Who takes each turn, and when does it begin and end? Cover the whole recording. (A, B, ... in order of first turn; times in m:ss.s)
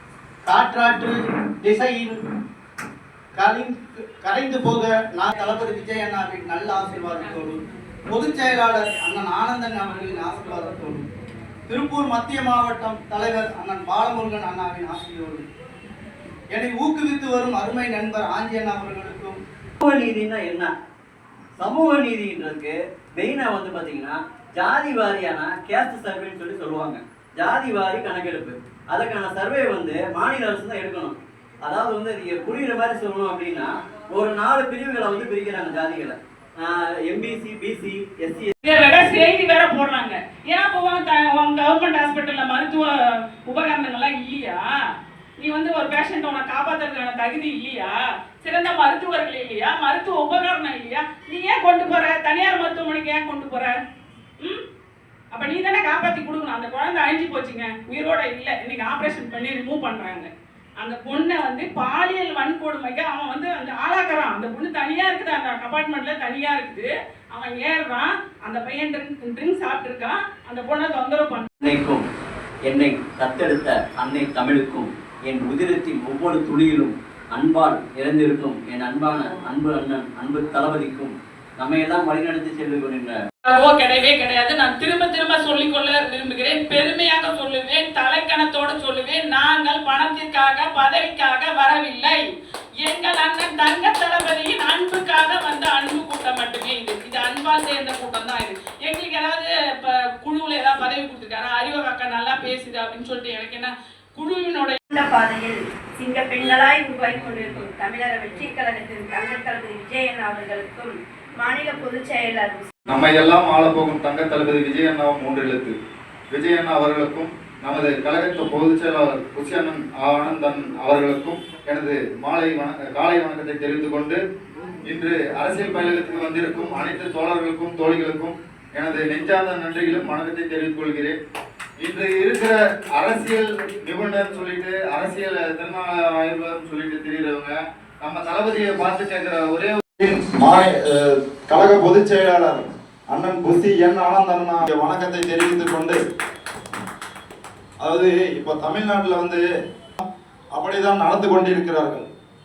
0:00.4-0:02.2 A
0:03.3-0:11.1 A
0:11.7-0:15.4 A
0:16.5-0:19.4 A
0:19.8-0:20.7 B
0:21.6-0:38.5 B
0:38.6-0:42.9 C
0:43.5-0:44.6 C
0:45.4-0:53.7 C
0:55.3-1:00.3 C
1:00.8-1:11.5 C
1:11.6-1:12.0 B
1:12.6-1:23.2 B
1:23.5-1:32.2 C
1:32.8-1:44.8 C
1:44.9-1:52.7 D
1:52.9-1:55.7 E
1:56.3-2:04.2 E
2:04.9-2:11.2 E
2:11.8-2:26.0 E
2:27.8-2:29.4 E
2:30.5-2:32.0 E